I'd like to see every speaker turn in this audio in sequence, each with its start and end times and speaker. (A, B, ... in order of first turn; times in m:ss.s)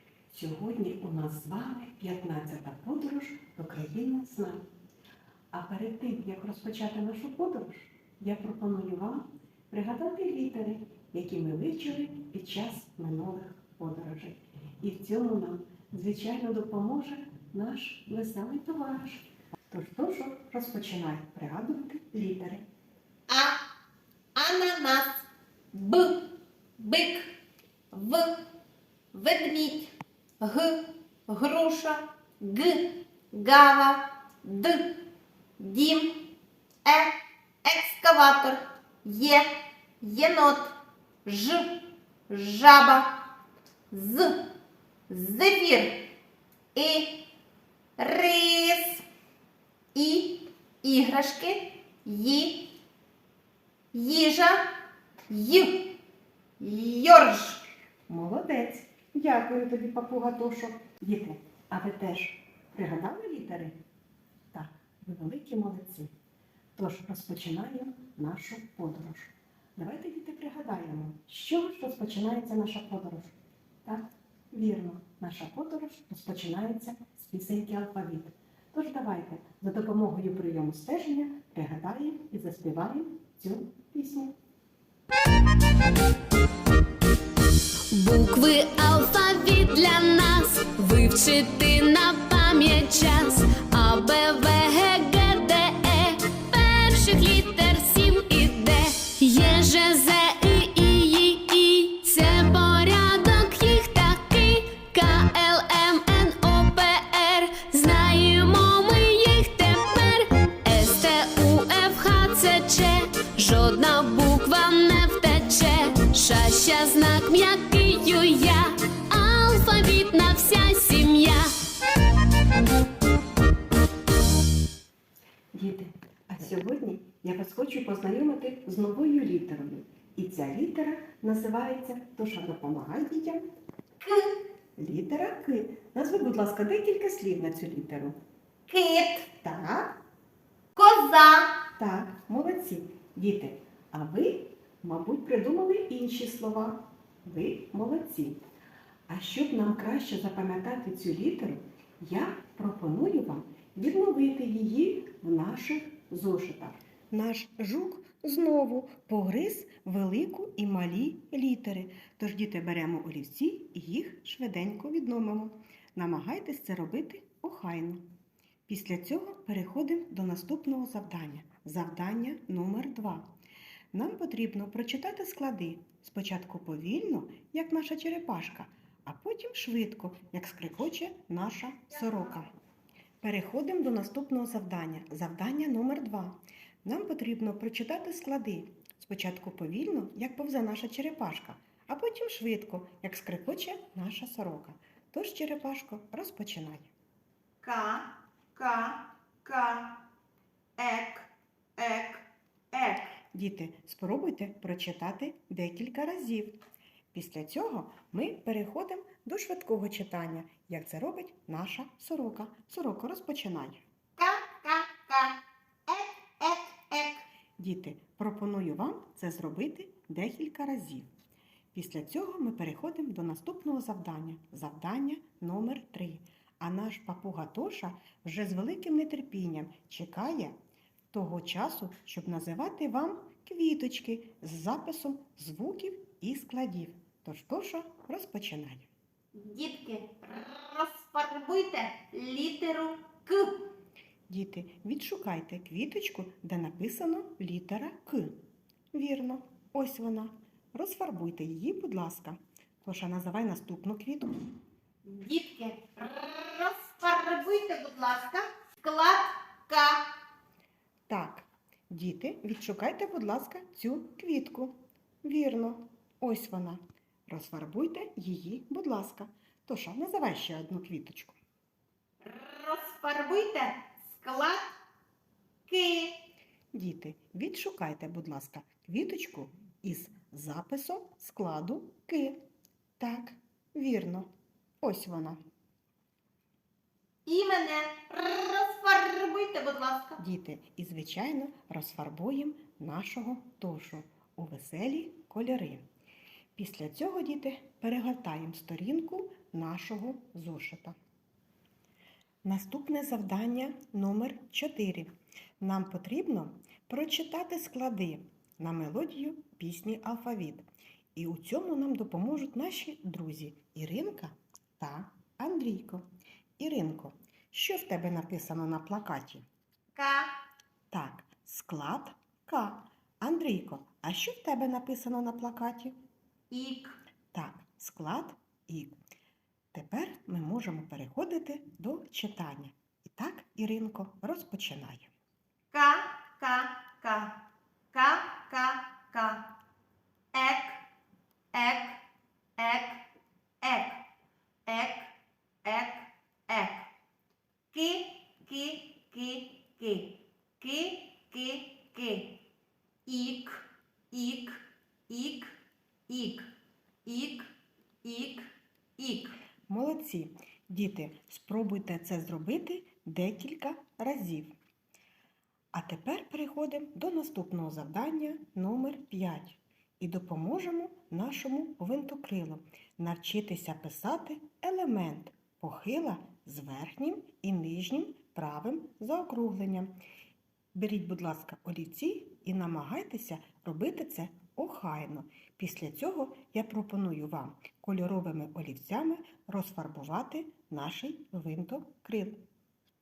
0:00.3-0:04.6 A
0:05.5-0:22.6 A
0:23.3-0:23.6 B
0:24.3-0:26.2 B
0:26.8-0:27.3 B
0:27.9-0:28.3 B
0:29.1-0:30.8 B
0:31.3-0:34.9 B
0:35.6-0:36.1 B
0:36.8-0:37.1 B
0:37.6-0:39.4 B
0:40.0-0:40.7 B
0:41.2-0:41.6 B
0:42.3-0:43.1 B
0:43.9-0:44.3 B
0:45.1-0:46.0 B
0:46.7-0:47.2 B
0:48.0-0:49.0 B
0:49.9-0:52.6 B
0:53.9-0:54.6 B
0:55.3-0:55.8 B
0:56.6-0:57.6 B
0:58.1-1:03.8 A
1:04.5-1:06.1 A
1:06.8-1:24.4 A
1:27.9-2:01.5 C
2:05.5-2:13.4 A
2:14.0-2:14.3 B
2:14.8-2:18.2 A
2:18.7-2:19.3 B
2:19.3-2:19.9 A
2:20.7-2:21.5 B
2:21.8-2:28.4 A
2:29.1-2:48.0 A
2:48.7-2:53.3 A
2:53.9-3:02.5 A
3:03.2-3:16.9 A
3:17.6-3:20.0 B
3:20.8-3:23.1 B
3:23.3-3:26.6 A
3:27.1-3:33.8 A
3:34.2-3:37.2 B
3:37.6-3:41.1 A
3:41.7-3:50.5 A
3:51.1-3:58.9 A
3:59.3-4:03.6 B
4:04.3-4:08.4 A
4:08.9-4:14.3 A
4:15.0-4:20.0 B
4:21.1-4:31.4 A
4:32.2-4:34.6 B
4:35.7-4:36.1 B
4:36.7-4:42.4 A
4:43.0-4:44.3 A
4:44.8-4:45.4 A
4:47.2-4:50.2 B
4:50.2-4:55.8 A
4:56.5-5:01.0 A
5:02.4-5:16.0 A
5:16.6-5:19.4 A
5:19.9-5:20.3 B
5:20.9-5:26.0 A
5:26.5-5:26.9 B
5:27.3-5:28.9 A
5:29.7-5:35.1 A
5:35.7-5:37.3 B
5:37.9-5:39.4 B
5:40.3-5:40.8 B
5:41.5-5:42.0 B
5:42.6-5:43.0 B
5:43.6-5:44.0 B
5:44.6-5:45.1 B
5:45.6-5:46.9 B
5:47.7-5:52.4 B
5:53.0-5:55.5 B
5:56.1-5:56.4 B
5:57.0-5:57.5 B
5:58.0-5:59.3 B
5:59.7-6:04.5 A
6:05.7-6:20.0 A
6:20.7-6:32.4 A